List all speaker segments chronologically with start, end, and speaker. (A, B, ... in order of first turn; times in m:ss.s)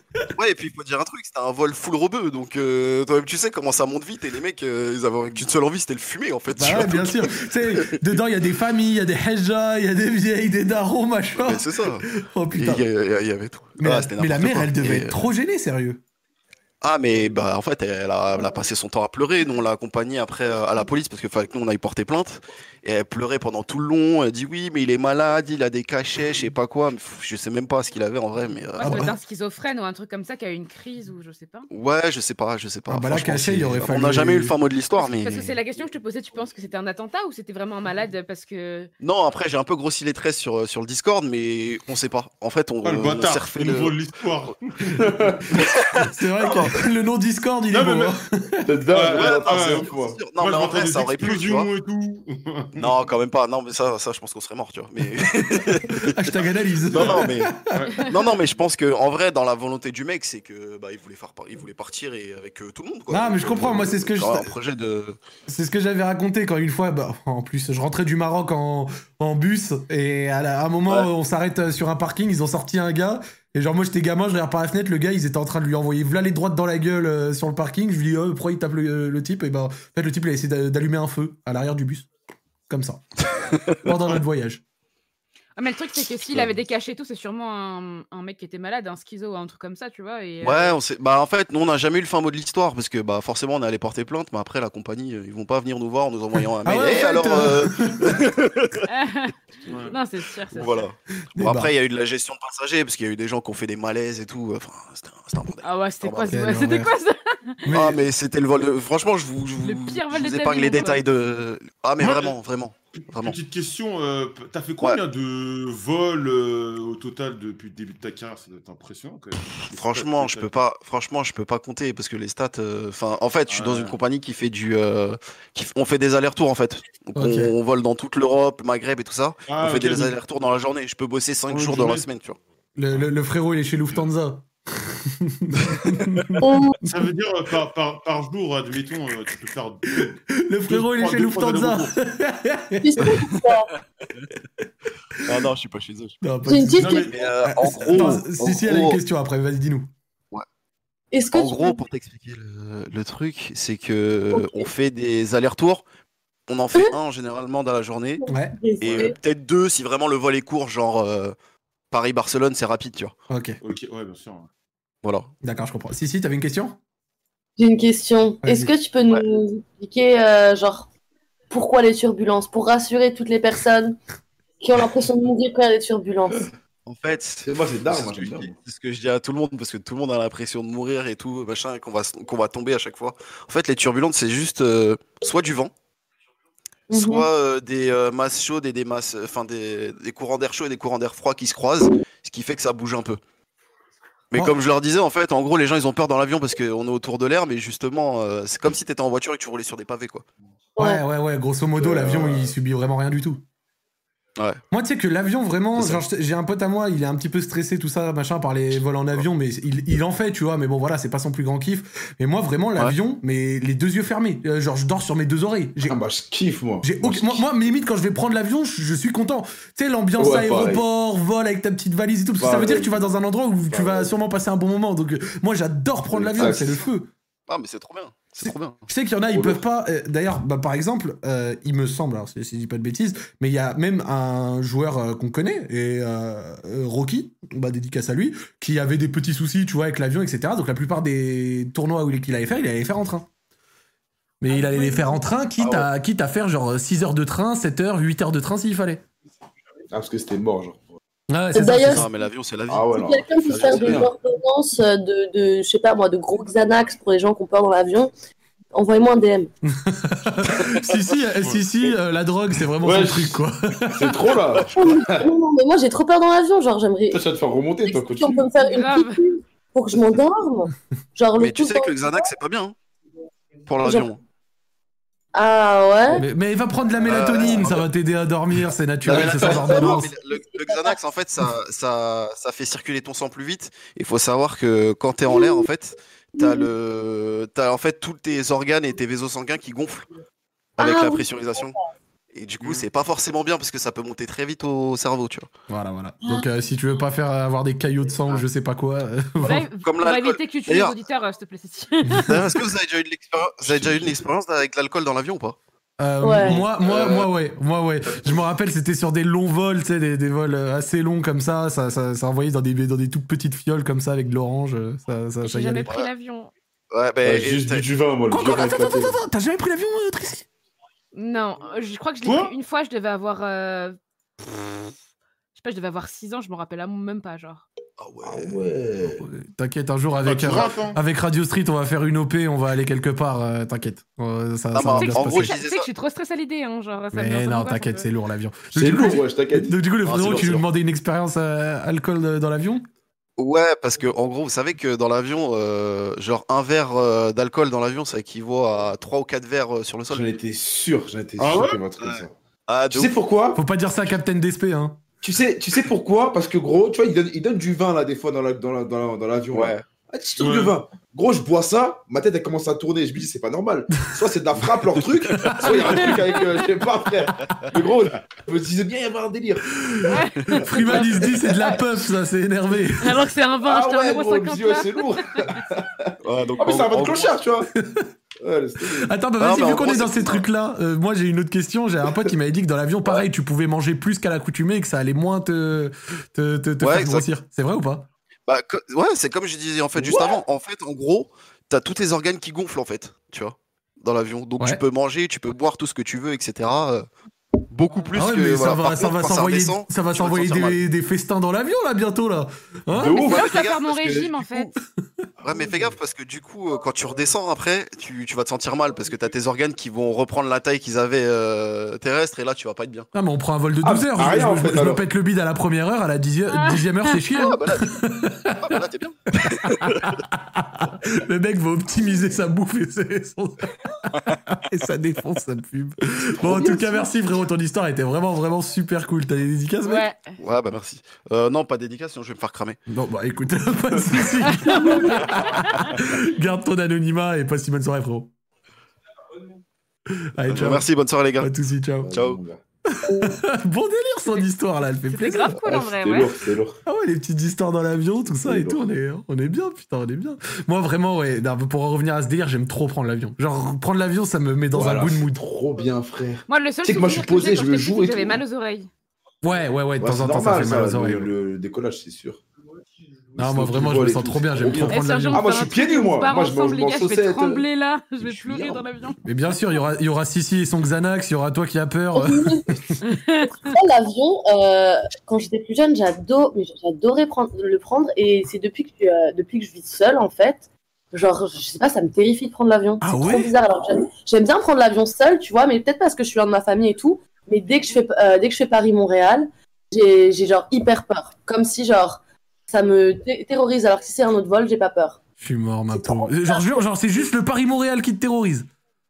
0:00.4-0:08.0 A
0:06.6-0:12.8 B
0:11.4-0:15.2 A
0:13.8-0:16.0 B
0:16.8-0:29.2 A
0:28.8-0:31.7 C
0:28.8-0:29.1 B
0:31.7-0:35.6 A
0:32.9-0:34.5 B
0:35.0-0:38.9 C
0:39.0-0:44.0 A
0:42.8-0:45.0 D
0:45.0-0:45.4 E
0:46.0-0:48.7 B
0:47.7-0:48.1 D
0:48.6-0:50.2 E
0:48.9-0:52.9 D
0:49.1-0:51.7 A
0:52.8-0:56.2 A
0:55.9-0:58.1 B
0:56.9-1:05.2 A
0:56.9-0:58.1 D
1:03.1-1:04.5 B
1:03.6-1:03.9 E
1:05.5-1:22.1 B
1:22.7-1:23.0 B
1:23.8-1:24.6 B
1:25.6-1:30.8 C
1:30.4-1:38.7 A
1:36.6-1:38.0 B
1:38.8-1:39.4 C
1:39.7-1:40.0 D
1:39.9-1:40.7 C
1:40.5-1:46.4 A
1:41.4-1:41.7 B
1:45.6-1:47.7 C
1:46.3-1:46.9 B
1:47.6-1:48.0 B
1:47.7-1:53.4 A
1:49.6-1:51.0 C
1:52.0-1:52.4 D
1:53.0-2:00.5 D
1:59.7-2:12.4 A
2:03.5-2:04.0 D
2:07.2-2:07.5 B
2:09.5-2:10.2 D
2:11.5-2:12.1 D
2:12.8-2:16.9 B
2:16.4-2:16.8 F
2:16.9-2:21.9 D
2:20.4-2:23.5 B
2:22.8-2:23.7 F
2:25.2-2:26.2 A
2:26.2-2:29.9 B
2:26.5-2:27.1 F
2:26.8-2:27.2 D
2:27.0-2:29.0 A
2:31.1-2:31.8 F
2:31.3-2:35.8 A
2:34.3-2:34.7 F
2:36.5-2:38.2 A
2:38.2-2:39.2 F
2:38.3-2:38.6 B
2:38.8-2:41.4 A
2:38.8-2:39.1 D
2:41.9-2:43.1 A
2:43.3-2:43.6 B
2:43.6-2:44.5 D
2:45.0-2:45.3 A
2:45.4-2:46.8 B
2:47.6-2:50.9 F
2:48.4-2:48.7 B
2:51.5-2:54.0 F
2:54.6-2:56.5 F
2:56.9-3:05.7 A
2:57.4-2:58.5 E
3:06.9-3:13.2 A
3:06.9-3:07.3 F
3:14.3-3:20.2 A
3:20.8-3:21.0 F
3:20.8-3:23.4 B
3:21.8-3:22.5 E
3:24.7-3:36.0 B
3:25.8-3:26.0 E
3:35.9-3:37.5 E
3:36.8-3:47.1 B
3:40.2-3:40.8 E
3:42.4-3:43.2 E
3:43.7-3:44.1 E
3:46.1-3:46.8 E
3:46.4-3:46.9 A
3:47.5-3:48.9 A
3:48.4-4:03.3 B
3:49.3-3:49.6 E
4:04.4-4:09.0 B
4:05.6-4:05.9 E
4:09.9-4:10.9 E
4:11.3-4:12.0 B
4:11.5-4:12.1 F
4:11.8-4:14.1 A
4:12.7-4:14.1 E
4:12.9-4:18.1 F
4:18.7-4:19.5 F
4:19.8-4:24.4 B
4:21.4-4:21.6 D
4:22.8-4:25.3 E
4:24.7-4:27.2 F
4:27.1-4:28.4 E
4:27.9-4:32.3 F
4:28.6-4:29.2 C
4:31.4-4:32.8 A
4:33.7-4:34.2 A
4:33.8-4:34.1 F
4:35.3-4:36.2 F
4:36.2-4:40.1 B
4:37.0-4:37.9 E
4:37.1-4:37.8 A
4:39.1-4:50.1 A
4:39.6-4:41.0 F
4:45.3-4:45.7 F
4:46.4-4:46.7 F
4:50.8-4:51.8 A
4:50.8-4:51.8 F
4:52.3-4:55.5 A
4:52.6-4:52.9 D
4:55.7-4:59.6 B
4:59.4-5:02.5 C
4:59.8-5:01.0 A
5:02.3-5:05.6 A
5:03.6-5:04.2 E
5:06.0-5:15.9 B
5:06.2-5:06.6 F
5:06.4-5:07.3 E
5:08.1-5:08.5 E
5:15.4-5:16.5 C
5:16.9-5:17.9 A
5:17.2-5:19.2 E
5:18.3-5:20.5 B
5:21.1-5:24.0 C
5:22.2-5:22.5 D
5:25.6-5:27.7 C
5:28.0-5:28.6 A
5:28.2-5:29.2 E
5:29.2-5:35.5 B
5:30.2-5:31.0 D
5:34.7-5:35.9 A
5:34.9-5:38.1 C
5:37.1-5:42.8 B
5:38.7-5:40.6 E
5:40.0-5:40.6 A
5:43.4-5:50.4 A
5:50.1-5:52.4 E
5:51.4-5:51.8 D
5:52.0-5:53.2 A
5:52.9-5:53.6 E
5:53.5-5:55.0 B
5:55.2-6:09.7 E
5:59.5-5:59.9 A
6:00.4-6:00.7 D
6:05.0-6:05.6 A
6:05.4-6:06.0 B
6:05.6-6:06.5 C
6:09.9-6:13.1 B
6:10.1-6:11.8 C
6:10.5-6:11.4 E
6:13.0-6:15.6 C
6:13.6-6:17.7 E
6:16.2-6:17.3 A
6:18.4-6:19.1 E
6:19.0-6:28.1 B
6:19.4-6:20.5 A
6:26.8-6:27.3 A
6:28.5-6:37.1 A
6:30.0-6:30.3 E
6:37.7-6:40.8 A
6:38.1-6:43.2 B
6:42.9-6:44.3 E
6:43.2-6:44.7 C
6:43.2-6:43.9 A
6:44.4-6:44.7 A
6:45.4-6:53.1 A
6:45.4-6:45.9 E
6:53.2-6:58.7 B
6:53.8-6:55.0 E
6:56.5-6:57.2 C
6:57.4-6:59.2 A
6:59.4-7:03.7 B
7:04.2-7:10.1 B
7:06.6-7:07.0 C
7:09.8-7:10.4 C
7:10.4-7:12.8 A
7:12.9-7:18.3 B
7:14.5-7:16.0 C
7:20.4-7:20.8 B
7:20.5-7:21.5 A
7:21.4-7:22.1 B
7:22.0-7:22.6 E
7:22.1-7:22.4 A
7:22.9-7:25.6 B
7:25.1-7:26.4 C
7:25.6-7:26.8 E
7:26.9-7:35.4 B
7:28.4-7:28.8 E
7:34.7-7:38.4 E
7:36.5-7:38.9 C
7:39.4-7:41.3 B
7:40.0-7:42.4 E
7:43.4-7:47.6 E
7:43.4-7:45.5 B
7:44.7-7:49.2 C
7:48.2-7:48.9 E
7:49.2-7:53.0 B
7:52.2-7:52.8 F
7:53.1-7:53.5 C
7:53.4-8:15.2 F
8:03.0-8:03.5 B
8:15.4-8:18.7 B
8:15.9-8:16.8 F